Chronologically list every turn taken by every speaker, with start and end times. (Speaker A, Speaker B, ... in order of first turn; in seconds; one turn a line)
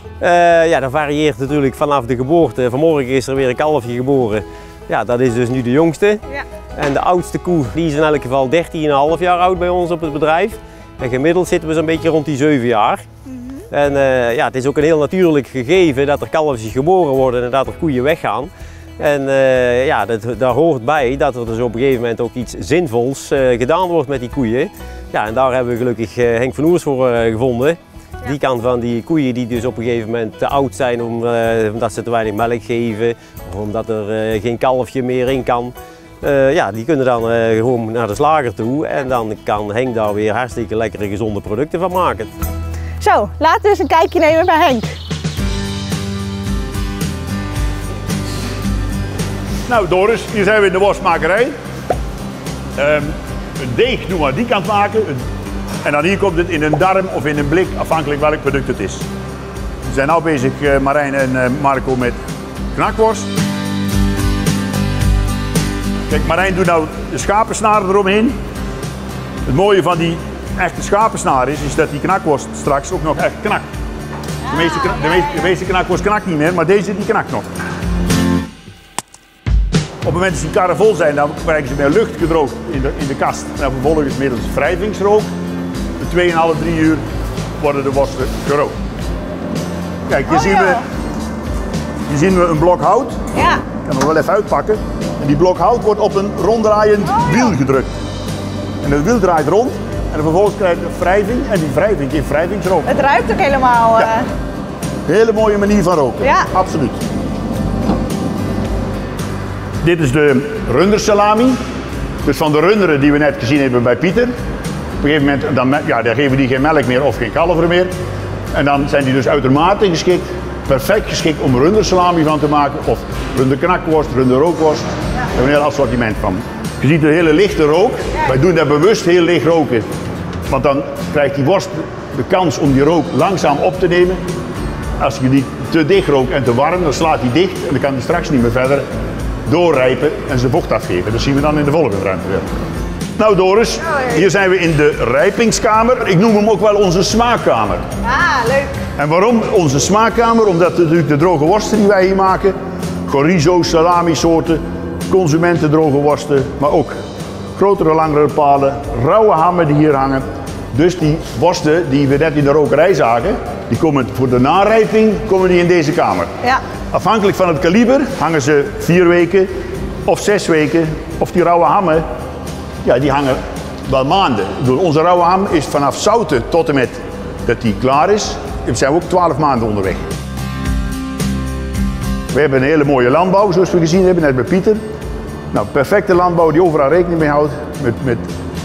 Speaker A: 0.2-6.2
Speaker A: 6.8-13.0
Speaker A: 13.7-42.3
Speaker B: 43.0-45.0
Speaker C: 49.7-51.5
Speaker C: 52.8-55.2
Speaker C: 55.8-59.1
Speaker C: 59.9-62.2
Speaker C: 62.7-63.3
Speaker C: 66.1-68.4
Speaker C: 69.5-73.7
Speaker C: 74.5-77.5
Speaker C: 80.0-85.3
Speaker C: 86.0-87.0
Speaker C: 87.6-88.8
Speaker C: 90.1-90.8
Speaker B: 90.3-90.8
Speaker C: 92.1-93.2
Speaker B: 93.3-93.7
Speaker C: 93.8-97.9
Speaker B: 97.1-97.5
Speaker C: 98.8-102.9
Speaker B: 102.9-104.3
Speaker C: 105.1-107.0
Speaker B: 106.2-106.5
Speaker C: 109.8-111.6
Speaker C: 112.2-114.3
Speaker C: 115.0-117.9
Speaker C: 118.5-129.9
Speaker C: 130.5-134.2
Speaker C: 135.0-138.9
Speaker C: 139.5-142.5
Speaker C: 143.2-147.8
Speaker B: 148.0-148.8
Speaker C: 149.0-157.0
Speaker C: 157.6-166.3
Speaker C: 166.9-169.5
Speaker C: 170.1-172.1
Speaker C: 172.8-180.0
Speaker C: 182.3-184.8
Speaker C: 185.5-188.2